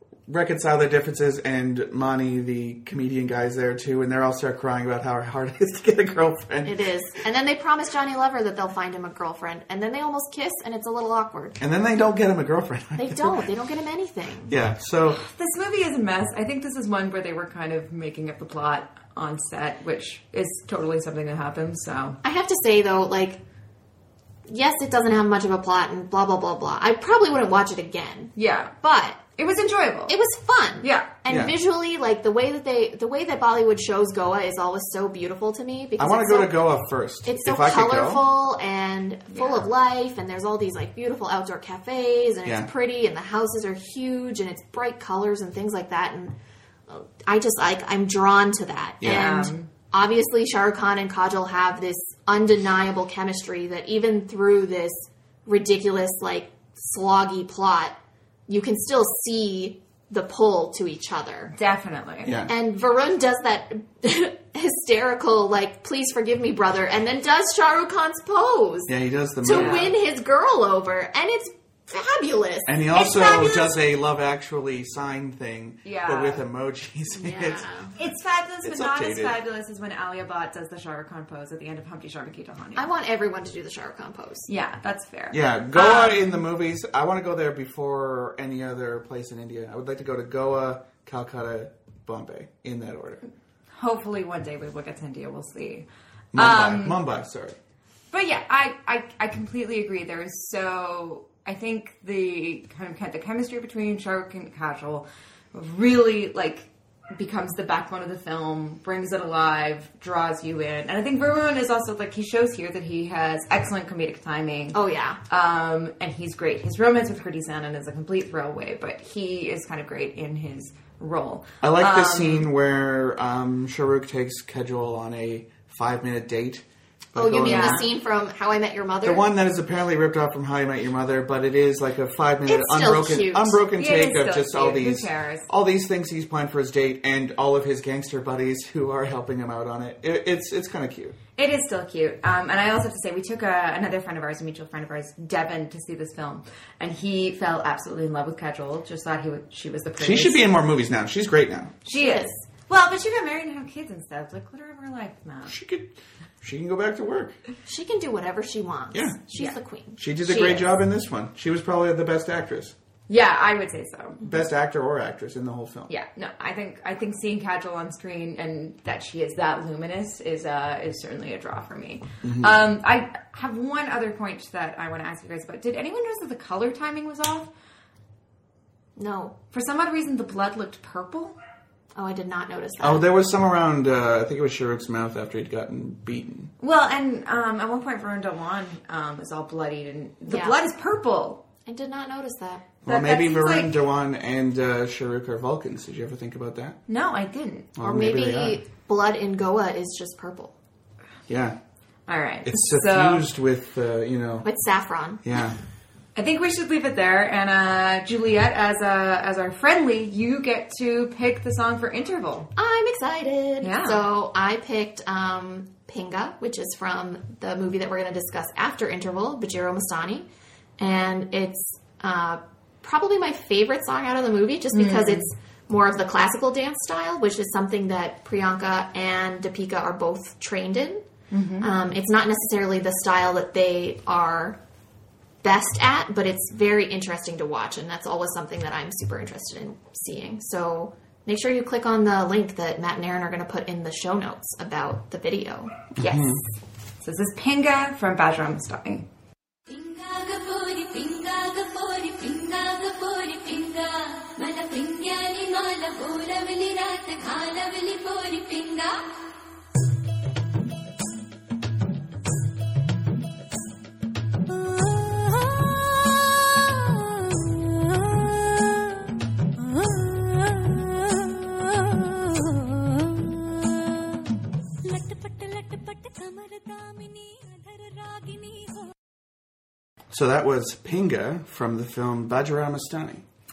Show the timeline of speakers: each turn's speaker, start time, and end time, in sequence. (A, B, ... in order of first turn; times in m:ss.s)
0:00.3-0:06.8 A
0:06.7-0:11.6 B
0:11.6-0:13.5 A
0:13.0-0:14.5 B
0:14.5-0:15.2 A
0:15.1-0:22.2 C
0:22.2-0:23.4 B
0:24.5-0:29.2 B
0:28.4-0:28.7 C
0:29.4-0:30.2 C
0:30.1-0:36.5 B
0:30.8-0:31.1 C
0:31.3-0:31.6 A
0:36.0-0:38.3 A
0:37.3-0:46.4 B
0:39.3-0:39.7 C
0:42.4-0:42.7 A
0:46.9-0:57.9 B
0:49.0-0:49.3 A
0:49.1-0:49.7 C
0:58.5-1:01.5 B
1:01.5-1:02.4 C
1:02.2-1:02.5 A
1:02.5-1:08.9 B
1:08.9-1:10.0 A
1:09.4-1:13.6 B
1:09.5-1:09.9 C
1:12.7-1:17.7 A
1:15.8-1:16.4 C
1:17.2-1:17.9 B
1:18.0-1:22.9 C
1:18.6-1:19.4 A
1:22.8-1:24.5 B
1:24.5-1:26.4 C
1:25.3-1:33.2 A
1:33.7-1:37.0 C
1:36.3-1:37.6 A
1:38.1-2:02.5 C
1:54.7-1:55.2 B
2:01.6-2:07.9 A
2:07.2-2:09.2 B
2:07.4-2:07.9 C
2:09.0-2:21.2 A
2:12.5-2:13.6 B
2:13.8-2:15.5 C
2:21.4-2:30.5 C
2:30.0-2:31.8 A
2:31.8-2:35.6 C
2:32.0-2:32.3 B
2:35.5-2:37.4 A
2:37.7-2:40.4 B
2:38.9-2:39.2 A
2:40.0-2:42.8 A
2:43.1-2:44.3 C
2:44.2-2:45.9 A
2:45.9-2:57.5 C
2:52.2-2:52.6 A
2:59.0-2:59.3 B
2:59.5-3:01.4 C
3:02.0-3:03.0 B
3:02.8-3:06.5 A
3:06.6-3:11.4 C
3:10.3-3:10.6 B
3:11.7-3:12.6 B
3:12.9-3:13.8 C
3:12.9-3:16.8 A
3:16.9-3:17.7 C
3:17.8-3:18.6 A
3:17.8-3:20.5 B
3:21.3-3:21.6 A
3:22.1-3:23.3 C
3:22.4-3:24.5 A
3:24.5-3:25.2 B
3:25.2-3:25.6 A
3:26.2-3:32.5 C
3:32.6-3:40.3 B
3:33.6-3:34.0 C
3:40.8-3:51.0 B
3:44.7-3:45.3 C
3:51.3-3:51.7 C
3:51.6-3:54.6 B
3:55.4-4:05.7 B
4:06.0-4:06.4 A
4:06.0-4:06.5 C
4:07.0-4:09.1 C
4:09.7-4:19.0 D
4:34.9-4:38.8 D
4:40.1-4:43.2 A